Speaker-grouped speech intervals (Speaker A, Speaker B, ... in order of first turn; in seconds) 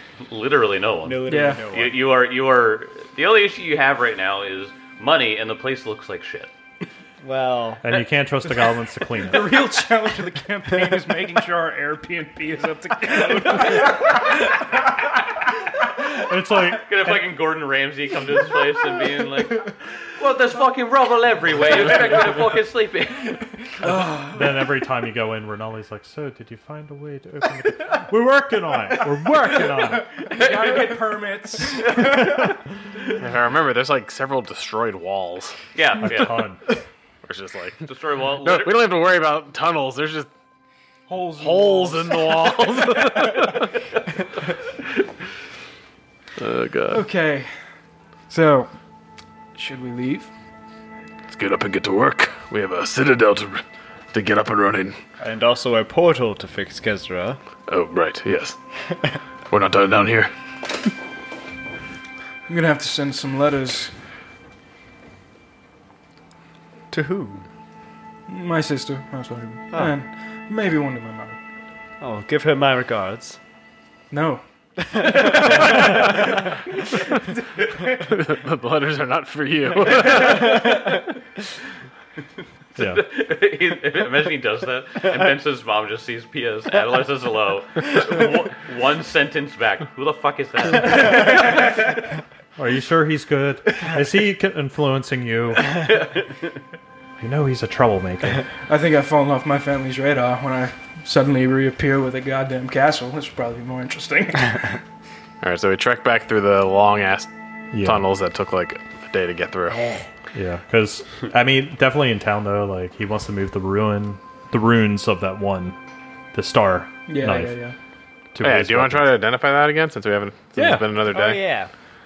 Speaker A: 0.2-6.5, 16.8-23.5, 30.3-30.9, 31.9-32.5, 35.8-36.5, 37.9-38.9, 82.8-91.8, 95.8-96.4
Speaker B: 1.1-2.0, 7.2-7.8, 55.2-57.4, 66.9-67.5, 72.0-73.4, 75.0-75.7, 80.2-80.9, 121.1-121.7
Speaker C: 1.3-1.6, 9.2-14.6, 23.8-24.5, 30.0-32.6, 41.1-43.5, 46.9-47.5, 48.3-48.7, 49.5-50.3, 62.5-63.9, 68.3-71.4, 74.1-76.3, 98.7-104.8, 117.1-117.8
Speaker D: 7.8-9.5, 16.0-17.2, 24.3-30.1, 36.0-36.6, 82.8-83.0, 92.6-95.9, 97.2-98.5, 107.7-108.0, 110.3-115.8, 116.3-117.6, 118.3-119.1, 120.6-120.8
Speaker E: 33.2-35.6, 37.2-40.3, 41.4-43.5, 46.4-47.1, 51.3-55.0, 57.7-58.6, 59.5-60.3, 77.9-80.7, 105.4-110.0, 118.4-121.4